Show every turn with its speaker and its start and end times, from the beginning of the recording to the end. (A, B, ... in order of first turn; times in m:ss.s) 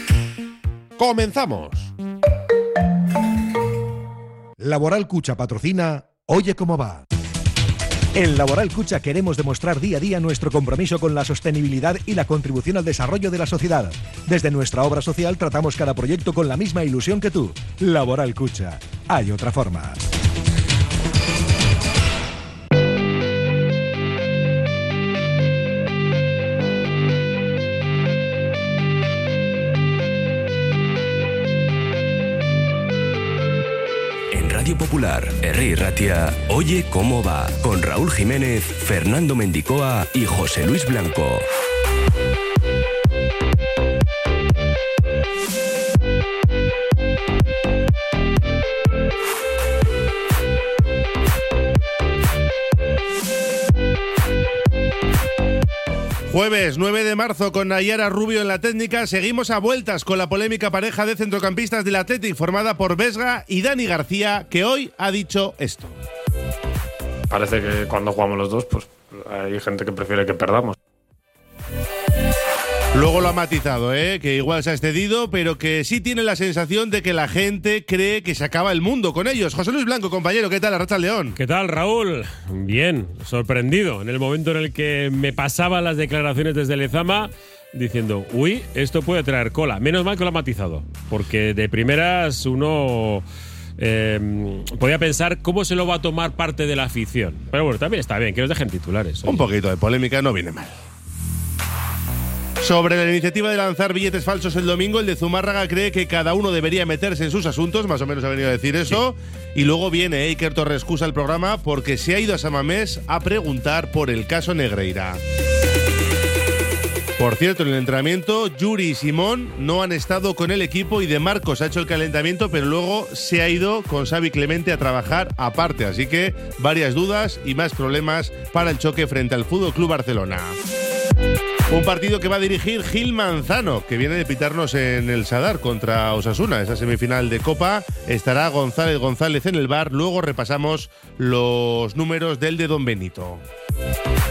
0:01.0-0:01.9 A
0:04.6-0:07.0 B
0:08.2-0:20.0 B
0:34.3-0:41.5 C
0:56.3-1:06.0 A
1:07.3-1:10.8 D
1:12.9-1:21.4 A
1:21.4-1:33.2 E
1:33.8-1:39.5 E
1:39.2-1:40.8 A
1:42.6-1:55.2 A
1:57.2-2:10.6 A
2:11.7-2:23.4 A